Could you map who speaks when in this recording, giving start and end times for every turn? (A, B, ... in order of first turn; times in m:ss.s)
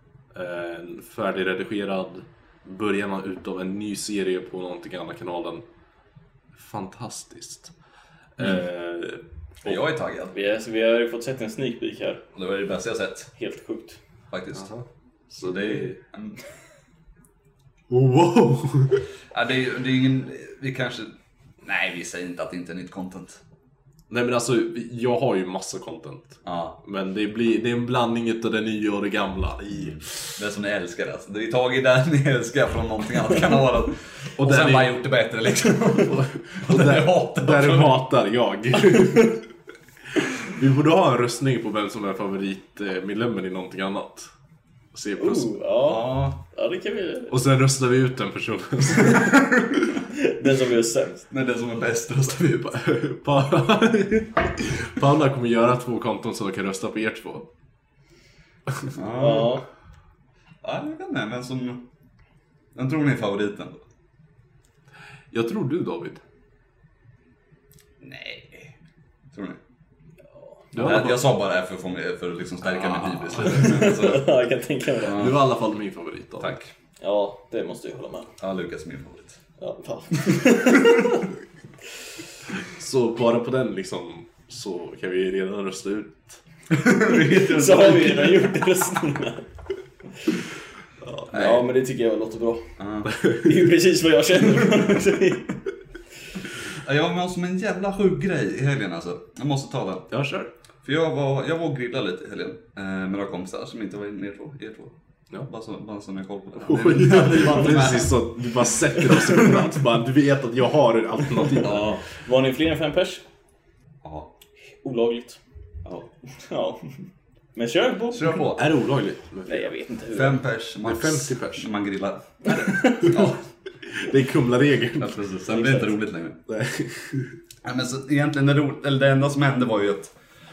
0:00.3-0:05.6 A
0:06.6-0:07.7 A
0:08.4-0:09.2 A
0:09.6-0:10.3 B
0:10.3-0:12.2 C
0:12.4-0:13.3 B
0:13.4-0:14.0 C
0:14.3-0:14.7 B
0:14.6-0:14.8 A
0:15.3-0:16.4 B
0:15.4-0:15.9 A
0:17.9-0:19.0 A
0:19.3-0:23.4 B
0:24.1-0:30.2 A
0:26.4-0:26.8 B
0:29.8-0:38.0 B
0:34.4-0:35.0 A
0:36.1-0:39.4 A
0:40.2-0:44.3 A
0:44.9-0:45.6 A
0:45.2-0:47.4 C
0:45.8-0:46.4 B
0:47.3-0:49.3 A
0:50.2-0:51.3 C
0:51.3-0:52.8 B
0:52.7-0:57.5 A
0:58.9-0:59.6 B
0:59.2-0:59.6 C
1:00.6-1:01.9 B
1:02.8-1:03.8 B
1:05.3-1:06.2 A
1:08.0-1:08.7 B
1:09.3-1:09.6 B
1:10.7-1:11.2 A
1:10.8-1:14.3 B
1:12.8-1:13.7 A
1:13.4-1:15.3 C
1:15.0-1:15.4 B
1:15.1-1:16.6 A
1:16.4-1:16.7 B
1:17.0-1:18.3 C
1:18.4-1:19.4 B
1:19.6-1:21.3 C
1:22.7-1:26.4 A
1:26.7-1:28.5 B
1:27.0-1:29.4 C
1:31.3-1:35.6 C
1:31.3-1:31.6 B
1:32.8-1:33.2 B
1:36.8-1:40.1 B
1:40.1-1:40.5 A
1:40.8-1:44.9 B
1:45.4-1:48.2 B
1:46.6-1:52.0 A
1:49.0-1:49.3 C
1:51.6-1:53.2 C
1:54.0-1:54.3 B
1:54.8-1:55.4 C
1:56.4-1:57.0 C
1:57.6-1:58.4 C
1:58.1-1:58.6 B
1:58.6-1:59.7 A
1:59.5-2:00.4 C
2:00.1-2:03.4 B
2:00.9-2:01.7 A
2:02.6-2:03.1 C
2:03.8-2:05.2 A
2:05.0-2:06.4 B
2:05.5-2:06.0 C
2:06.5-2:07.4 A
2:07.6-2:10.2 B